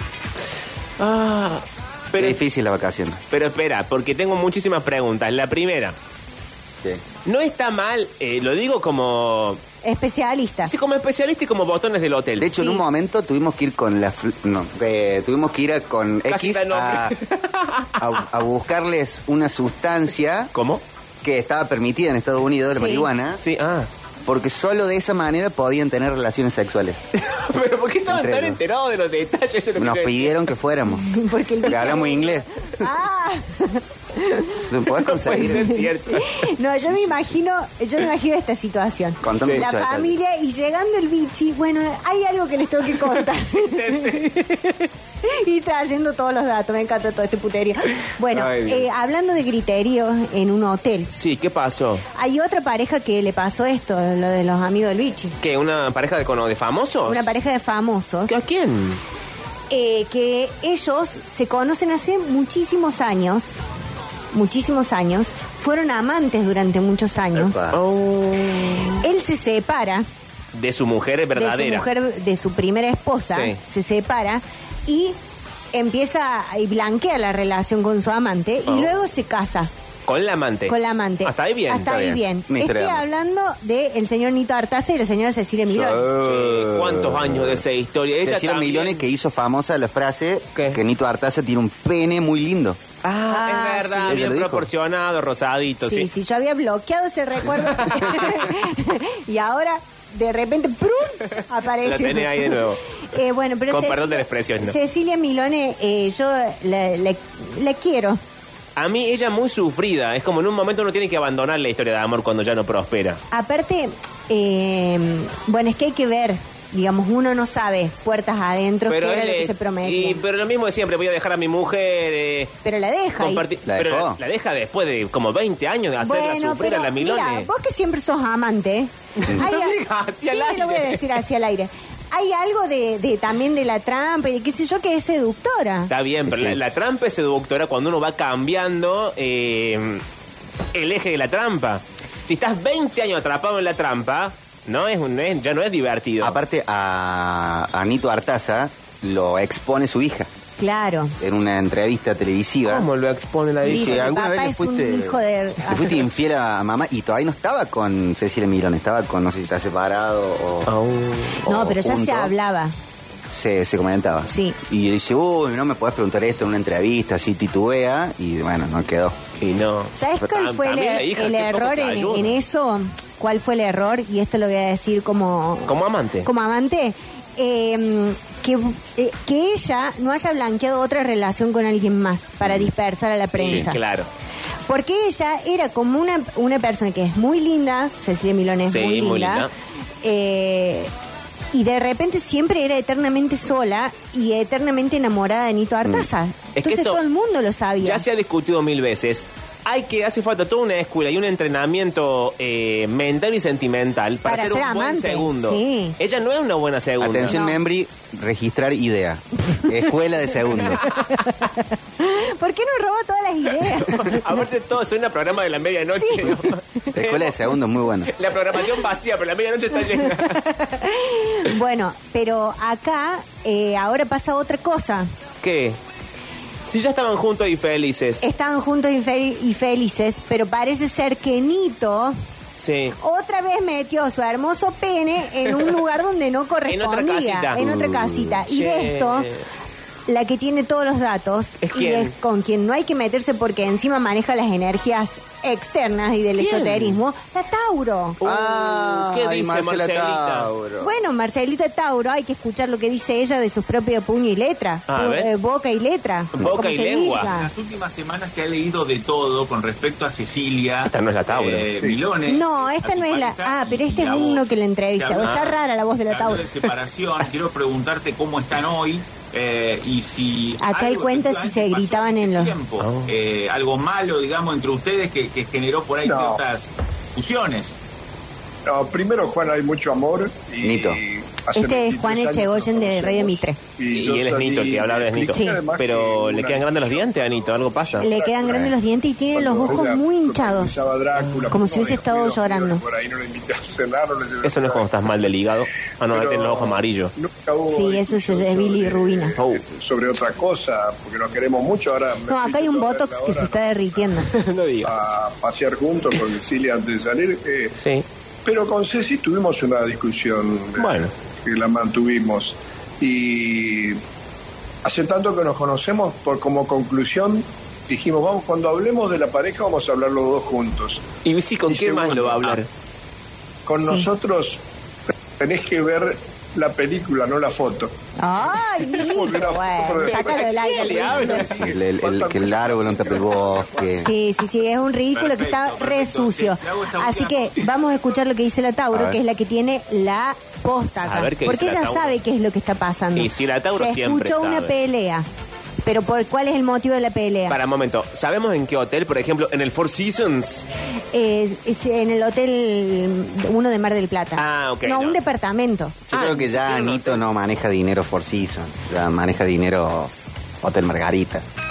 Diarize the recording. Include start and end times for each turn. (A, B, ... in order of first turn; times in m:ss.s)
0:01.0-0:02.4 A
0:02.2-0:03.2 B
0:03.3-0:06.0 A
0:07.2-0:09.6 A
0:09.8-0:10.7 C
0:10.6-0:12.5 A
0:12.4-0:17.2 B
0:12.6-0:12.8 C
0:16.3-0:18.0 A
0:18.0-0:20.5 B
0:20.5-0:20.8 A
0:21.2-0:23.4 B
0:22.7-0:23.1 C
0:23.4-0:23.9 A
0:24.3-0:27.0 B
0:27.2-0:30.4 A
0:28.1-0:28.6 B
0:29.8-0:31.1 B
0:30.9-0:34.7 C
0:31.6-0:32.5 B
0:34.6-0:35.7 B
0:35.0-0:36.4 A
0:35.3-0:51.1 C
0:39.2-0:40.2 B
0:43.6-0:44.2 A
0:48.3-0:48.9 A
0:51.1-0:52.0 A
0:52.2-0:55.4 C
0:55.4-0:57.3 A
0:57.1-0:58.3 C
0:58.3-0:59.0 A
0:59.7-1:03.6 C
1:04.3-1:07.6 C
1:07.4-1:07.8 B
1:07.7-1:09.0 A
1:09.0-1:10.1 C
1:10.5-1:11.9 A
1:11.4-1:15.2 C
1:13.3-1:13.6 A
1:15.7-1:19.7 C
1:20.1-1:21.9 A
1:20.7-1:26.1 C
1:21.8-1:23.0 B
1:25.7-1:27.6 B
1:26.2-1:29.0 A
1:28.2-1:32.8 B
1:33.0-1:36.1 A
1:33.3-1:34.2 C
1:34.0-1:34.7 B
1:35.8-1:48.2 C
1:37.8-1:38.2 A
1:41.8-1:42.8 A
1:43.7-1:44.8 A
1:48.8-1:53.2 A
1:53.3-2:00.2 C
1:58.9-2:02.5 A
2:02.6-2:03.5 C
2:03.2-2:07.5 A
2:03.7-2:04.2 B
2:06.0-2:15.9 C
2:09.2-2:11.0 A
2:15.9-2:20.0 A
2:16.3-2:16.6 B
2:20.7-2:26.4 A
2:26.2-2:30.3 B
2:30.6-2:31.2 C
2:31.2-2:32.9 B
2:32.6-2:34.1 A
2:33.6-2:40.7 B
2:33.6-2:36.0 C
2:40.7-2:41.6 A
2:41.5-2:42.3 B
2:41.5-2:42.8 C
2:43.3-2:49.2 B
2:44.3-2:44.6 C
2:49.4-2:52.4 A
2:50.0-3:03.8 C
2:55.7-2:56.3 A
3:03.3-3:04.1 A
3:04.7-3:09.5 C
3:08.7-3:09.5 A
3:10.0-3:10.9 C
3:11.5-3:18.0 C
3:16.6-3:17.0 A
3:17.8-3:27.4 A
3:24.3-3:26.0 C
3:27.0-3:30.8 B
3:27.3-3:27.6 C
3:31.2-3:34.2 C
3:33.8-3:37.4 A
3:36.0-3:36.8 C
3:36.9-3:38.1 B
3:38.1-3:40.4 A
3:40.3-3:45.1 C
3:45.4-3:45.8 A
3:46.7-3:48.2 A
3:48.2-3:52.2 C
3:52.6-3:53.0 A
3:53.0-3:59.3 C
3:56.7-3:57.6 A
3:57.6-3:58.4 B
3:58.5-3:59.4 A
4:00.1-4:08.2 C
4:01.6-4:02.1 A
4:06.4-4:07.0 A
4:08.2-4:10.5 A
4:08.2-4:10.9 B
4:10.8-4:17.5 C
4:14.9-4:15.3 A
4:16.4-4:17.3 A
4:17.2-4:37.8 D
4:20.9-4:21.7 A
4:21.8-4:22.0 E
4:22.3-4:26.6 C
4:25.2-4:25.5 A
4:30.6-4:32.5 C
4:32.8-4:33.1 A
4:36.0-4:36.4 E
4:38.7-4:48.8 E
4:40.6-4:41.0 B
4:41.5-4:43.6 C
4:43.9-4:48.1 A
4:45.3-4:45.6 C
4:48.0-4:50.8 C
4:48.4-4:48.7 B
4:49.3-4:54.9 E
4:51.5-4:52.8 C
4:54.4-4:57.1 A
4:56.1-5:03.8 E
4:57.7-4:59.4 C
4:59.4-4:59.6 A
5:02.3-5:04.3 C
5:04.3-5:05.1 A
5:04.8-5:07.7 E
5:07.8-5:08.0 A
5:08.4-5:14.0 E
5:10.8-5:11.1 A
5:14.8-5:21.0 E
5:21.2-5:22.7 A
5:21.7-5:22.6 E
5:23.7-5:24.6 E
5:23.8-5:24.1 C
5:25.4-5:27.9 E
5:28.2-5:31.5 C
5:28.9-5:34.1 E
5:30.0-5:31.7 A
5:31.3-5:34.1 B
5:34.0-5:45.3 C
5:35.1-5:37.7 D
5:38.9-5:39.2 B
5:41.0-5:42.2 A
5:43.1-5:44.8 A
5:45.8-5:47.6 C
5:47.5-5:50.7 A
5:51.1-5:56.0 C
5:54.4-5:55.2 A
5:56.1-6:01.4 B
5:56.1-5:57.2 A